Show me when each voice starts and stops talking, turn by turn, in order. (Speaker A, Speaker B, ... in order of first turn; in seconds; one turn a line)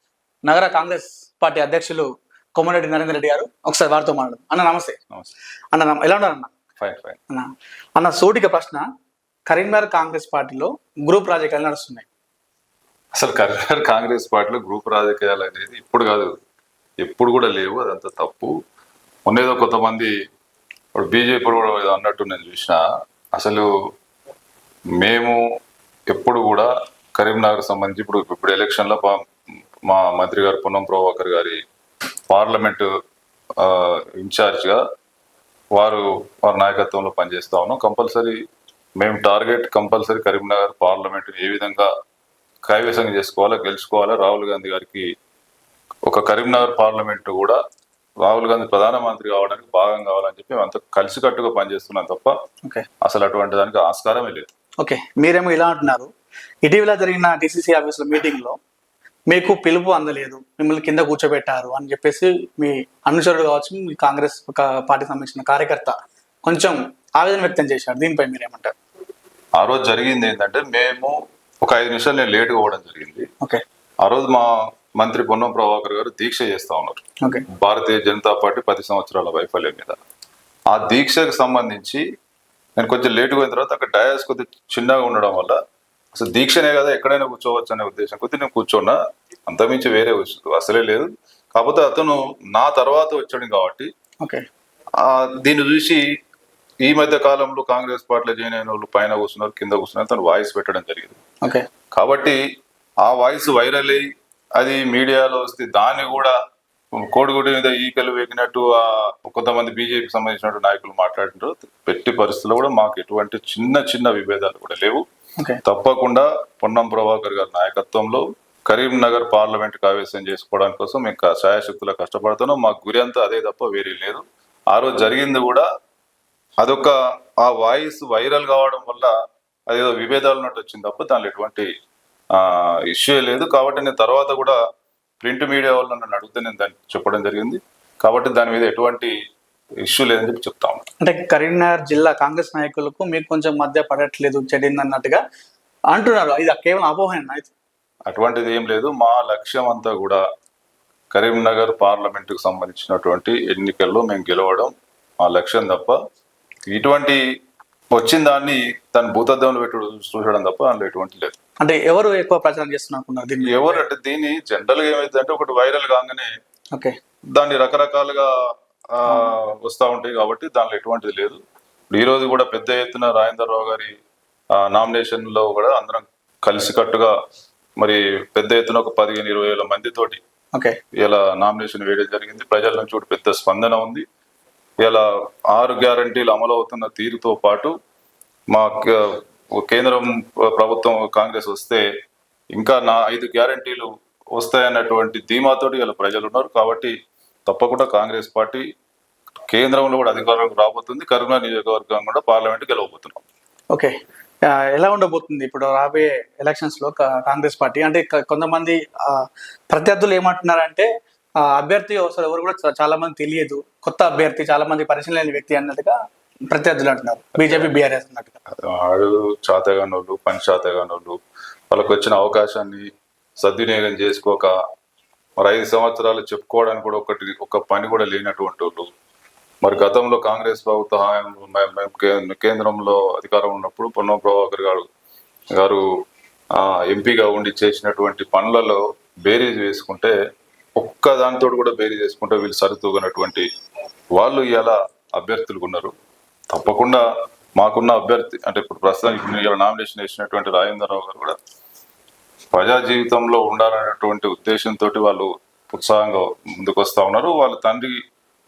Speaker A: 0.4-5.0
Speaker A: 5.7-6.5
Speaker B: 6.8-7.2
Speaker A: 7.3-8.8
Speaker A: 9.5-12.1
Speaker B: 13.1-16.3
Speaker B: 17.0-18.5
Speaker B: 19.2-20.1
Speaker B: 20.9-22.8
Speaker B: 23.4-23.7
Speaker B: 25.0-25.4
Speaker B: 26.1-29.2
Speaker B: 29.8-31.6
Speaker B: 32.3-32.9
Speaker B: 33.6-34.8
Speaker B: 35.8-38.4
Speaker B: 39.0-41.9
Speaker B: 42.6-45.1
Speaker B: 46.0-47.6
Speaker B: 48.2-52.4
Speaker B: 53.0-54.5
Speaker A: 54.8-56.1
Speaker A: 56.6-58.6
Speaker A: 59.3-65.9
Speaker A: 66.5-68.7
Speaker B: 69.6-73.2
Speaker B: 74.0-80.0
Speaker B: 80.7-82.0
Speaker B: 82.8-85.5
Speaker B: 86.1-93.9
Speaker B: 95.0-96.0
Speaker B: 96.8-101.2
Speaker B: 101.9-102.4
Speaker B: 103.0-104.0
Speaker B: 104.6-106.3
Speaker B: 107.0-115.0
Speaker B: 115.6-125.7
Speaker B: 126.6-129.1
Speaker B: 129.7-131.7
Speaker B: 132.3-134.6
Speaker B: 135.2-139.1
Speaker B: 139.8-140.8
Speaker A: 141.0-145.2
Speaker A: 145.9-147.5
Speaker B: 148.1-150.2
Speaker B: 151.1-156.0
Speaker B: 156.7-157.2
Speaker B: 157.9-161.3
Speaker A: 161.6-163.8
Speaker B: 163.4-166.3
Speaker B: 167.3-168.3
Speaker B: 168.9-171.4
Speaker A: 169.1-169.3
Speaker B: 171.9-173.9
Speaker B: 174.6-177.1
Speaker B: 177.8-180.2
Speaker B: 181.0-184.0
Speaker B: 184.8-187.7
Speaker B: 188.5-191.8
Speaker B: 192.5-196.9
Speaker B: 197.5-198.6
Speaker B: 199.5-203.2
Speaker A: 204.4-210.9
Speaker A: 211.4-215.9
Speaker A: 216.5-218.3
Speaker B: 217.4-217.7
Speaker B: 218.5-221.2
Speaker B: 221.7-222.9
Speaker B: 223.4-224.5
Speaker B: 225.4-228.9
Speaker B: 229.6-234.9
Speaker B: 235.5-235.8
Speaker B: 236.5-240.1
Speaker B: 240.8-243.4
Speaker B: 244.2-245.9
Speaker B: 246.5-247.0
Speaker B: 247.6-251.3
Speaker B: 252.5-258.0